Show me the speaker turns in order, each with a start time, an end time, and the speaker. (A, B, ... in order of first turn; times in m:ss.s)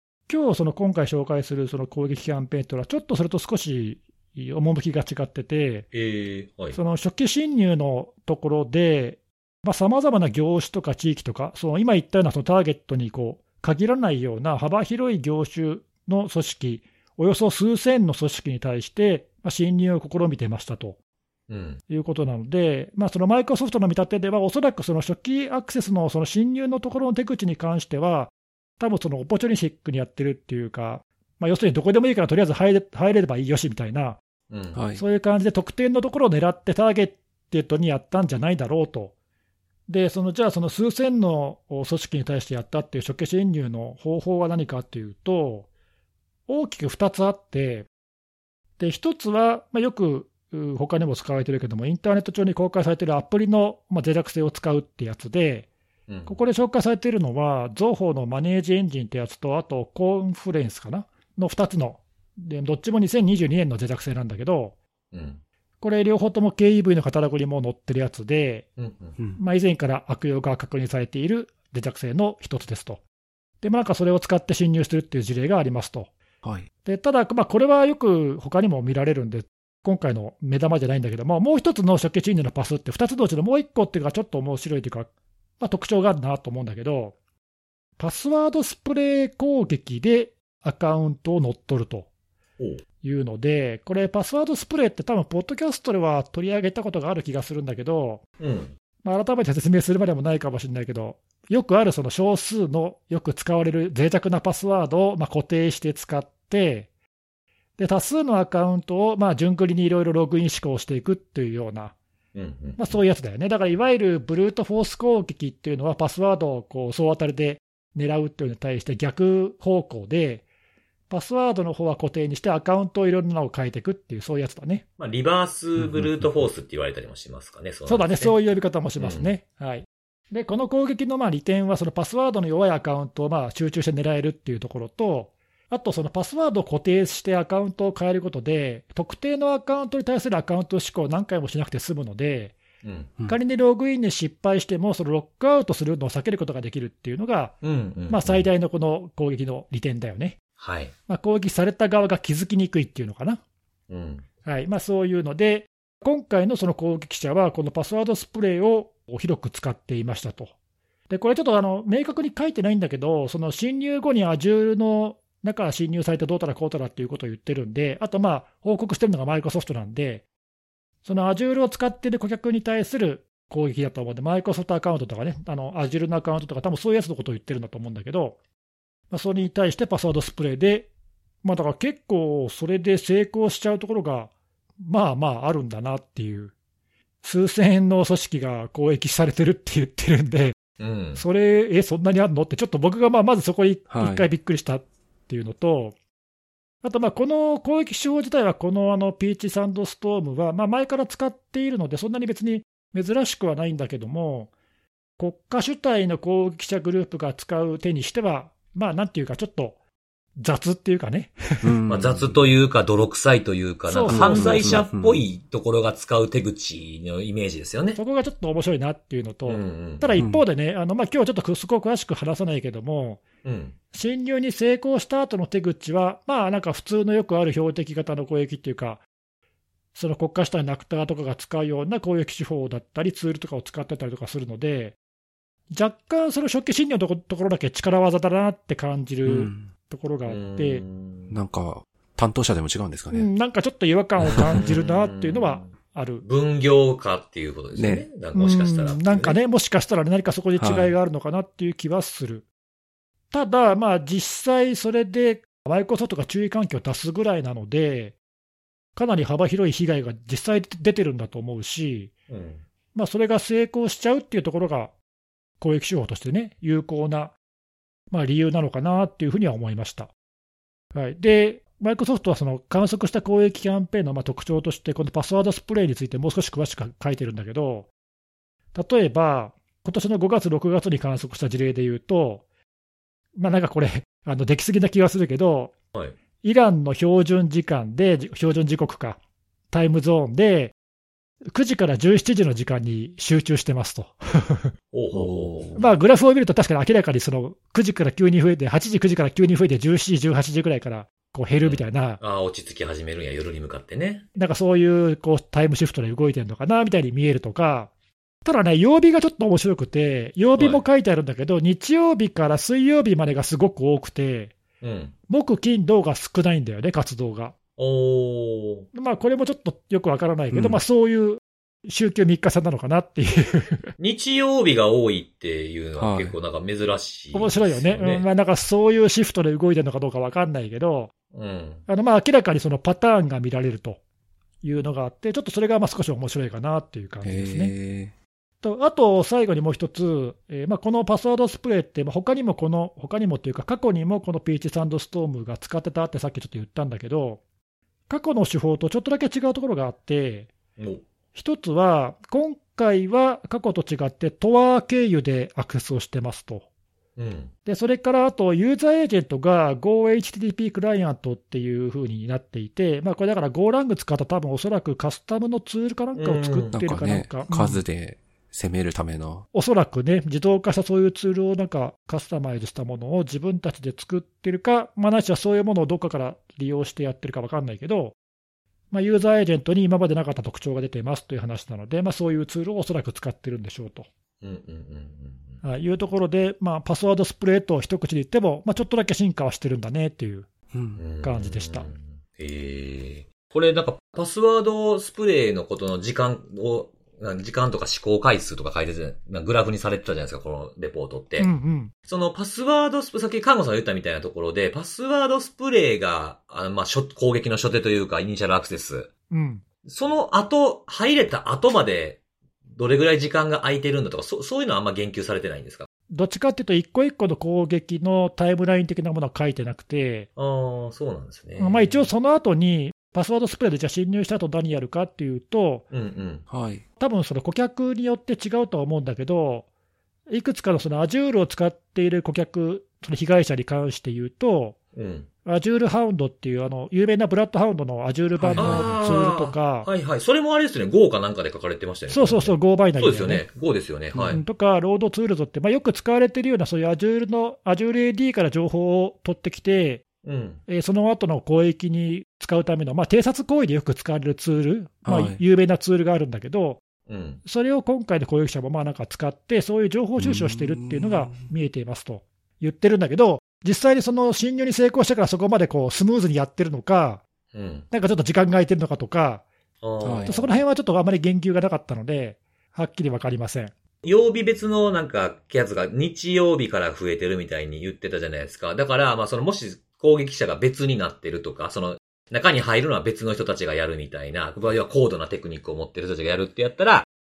0:00.3-0:05.9 A
0:05.9-0:06.8 B
0:06.7-0:21.0 A
0:21.5-0:21.8 B
0:21.9-0:34.2 A
0:34.5-0:34.8 B
0:34.8-0:35.0 C
0:35.0-0:39.1 A
0:39.9-0:45.7 A
0:46.5-0:47.9 A
0:48.8-0:55.7 A
0:56.1-0:56.4 B
0:56.3-1:04.8 A
1:05.1-1:05.4 B
1:05.8-1:08.7 A
1:08.8-1:09.2 B
1:09.4-1:13.0 A
1:13.6-1:16.1 A
1:16.8-1:27.2 A
1:28.0-1:32.1 A
1:33.0-1:38.2 A
1:38.4-1:38.7 B
1:39.0-1:46.9 A
1:47.8-1:52.0 A
1:52.4-1:53.0 B
1:52.8-2:00.4 A
2:01.1-2:04.8 A
2:05.0-2:08.4 B
2:05.8-2:06.3 C
2:07.9-2:22.6 A
2:09.0-2:09.3 B
2:22.8-2:23.1 B
2:23.3-2:30.4 A
2:27.6-2:28.5 B
2:30.6-2:30.9 B
2:31.1-2:33.4 A
2:33.9-2:34.3 B
2:34.4-2:40.5 A
2:41.1-2:50.2 A
2:51.0-2:58.4 A
2:59.1-3:00.9 A
3:01.4-3:04.3 A
3:04.8-3:06.5 A
3:07.2-3:10.6 A
3:10.8-3:11.2 B
3:11.2-3:16.0 A
3:13.9-3:14.3 C
3:16.8-3:24.5 A
3:25.2-3:29.8 A
3:30.4-3:31.8 A
3:31.6-3:32.4 C
3:31.9-3:38.0 B
3:33.9-3:34.8 A
3:34.1-3:35.2 C
3:38.0-3:43.2 A
3:39.5-3:40.1 B
3:40.2-3:40.4 C
3:43.4-3:43.8 B
3:43.9-3:49.0 A
3:50.0-3:55.0 A
3:55.7-4:00.8 A
3:59.3-3:59.7 C
4:00.3-4:01.4 B
4:01.3-4:03.3 C
4:03.1-4:06.2 A
4:04.2-4:04.7 C
4:04.2-4:09.4 B
4:07.8-4:08.1 C
4:08.3-4:12.5 A
4:10.6-4:10.9 C
4:13.3-4:18.2 A
4:19.0-4:22.1 A
4:22.3-4:22.6 B
4:22.9-4:24.9 A
4:25.6-4:27.4 A
4:28.1-4:30.1 A
4:30.9-4:37.9 A
4:38.8-4:42.4 A
4:43.4-4:45.7 A
4:46.4-4:49.2 A
4:49.7-4:50.7 A
4:51.5-4:54.7 A
4:54.9-4:55.7 B
4:55.1-4:56.0 C
4:55.8-5:02.2 A
5:01.6-5:04.3 B
5:04.4-5:07.9 A
5:08.4-5:14.6 A
5:10.5-5:10.8 B
5:14.8-5:15.2 B
5:15.3-5:17.5 A
5:17.8-5:18.9 B
5:18.9-5:23.9 A
5:20.5-5:20.8 C
5:24.0-5:28.3 B
5:26.0-5:26.4 C
5:27.3-5:31.1 A
5:31.3-5:31.8 B
5:31.9-5:34.0 A
5:34.6-5:37.7 A
5:37.2-5:38.1 C
5:38.6-5:47.4 A
5:48.1-5:50.5 A
5:50.8-5:51.0 B
5:51.4-5:56.7 A
5:57.2-5:57.5 B
5:57.7-6:07.8 A
6:06.2-6:06.7 B
6:06.7-6:09.4 C
6:09.5-6:18.2 A
6:18.9-6:24.1 A
6:24.4-6:25.6 B
6:25.6-6:30.5 A
6:30.7-6:31.0 C
6:31.0-6:41.5 B
6:31.2-6:31.9 A
6:41.4-6:41.9 A
6:42.1-6:49.1 B
6:49.3-6:49.6 A
6:49.8-6:52.2 B
6:52.8-6:55.9 B
6:56.1-7:00.3 A
7:00.4-7:02.1 B
7:01.6-7:05.9 A
7:05.9-7:06.5 B
7:06.5-7:06.8 C
7:07.0-7:09.7 A
7:10.3-7:14.8 A
7:15.0-7:15.3 B
7:15.4-7:19.9 A
7:18.4-7:19.1 C
7:18.6-7:24.4 B
7:22.1-7:23.4 A
7:24.2-7:30.0 A
7:30.2-7:30.6 B
7:30.7-7:36.8 A
7:35.1-7:35.4 C
7:37.1-7:37.4 B
7:37.4-7:47.2 A
7:40.2-7:41.5 C
7:47.5-7:47.9 B
7:47.9-7:49.4 A
7:49.8-7:50.6 B
7:50.0-7:50.4 C
7:50.2-7:53.7 A
7:54.0-8:07.1 B